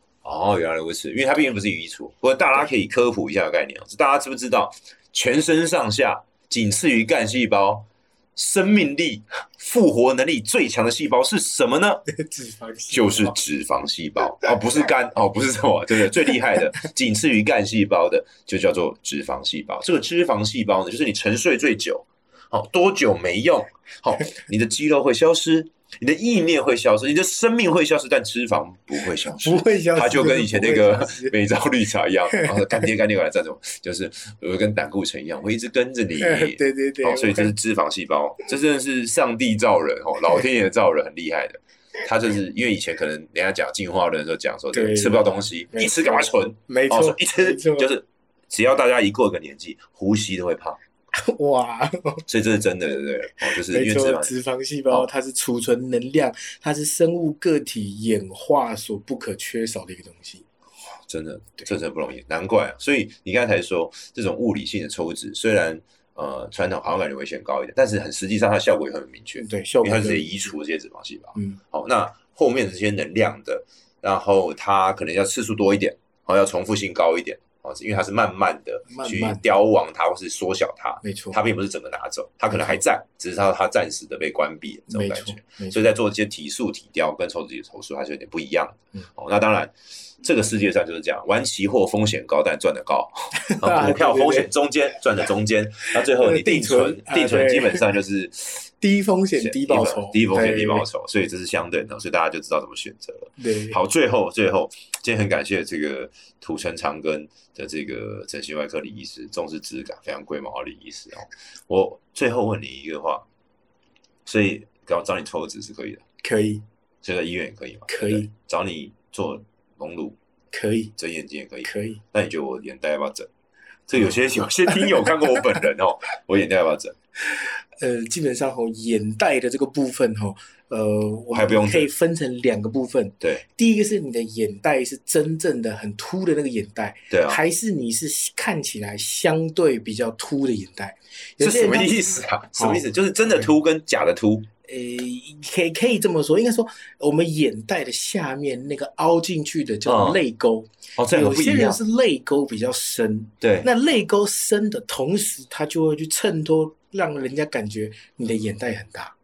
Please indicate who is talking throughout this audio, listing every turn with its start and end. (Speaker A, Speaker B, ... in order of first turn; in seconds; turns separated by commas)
Speaker A: 0.2-12.0, Speaker B: 12.1-13.4, Speaker A: 12.9-50.8, Speaker B: 29.3-31.4, Speaker B: 32.3-32.8, Speaker B: 36.2-37.5, Speaker B: 44.7-47.9, Speaker B: 51.1-52.2, Speaker A: 52.3-54.3, Speaker B: 53.6-60.5, Speaker A: 61.1-98.7, Speaker B: 69.4-70.5, Speaker B: 78.9-79.4, Speaker B: 81.0-81.4, Speaker B: 82.5-82.8, Speaker B: 84.9-85.9, Speaker B: 93.4-94.5, Speaker B: 95.9-97.9, Speaker B: 98.8-100.9, Speaker A: 99.4-113.2, Speaker B: 103.4-103.8, Speaker A: 114.2-116.0, Speaker B: 116.2-116.6, Speaker A: 117.0-120.2, Speaker B: 117.9-118.3, Speaker B: 120.5-120.9, Speaker A: 121.0-123.3, Speaker B: 121.7-122.0, Speaker A: 123.9-127.0, Speaker B: 124.7-125.0, Speaker B: 127.3-143.5, Speaker A: 131.3-131.9, Speaker A: 137.1-137.4, Speaker A: 141.4-144.5, Speaker B: 144.7-159.1, Speaker A: 149.8-150.2, Speaker A: 151.0-151.8, Speaker A: 153.4-153.7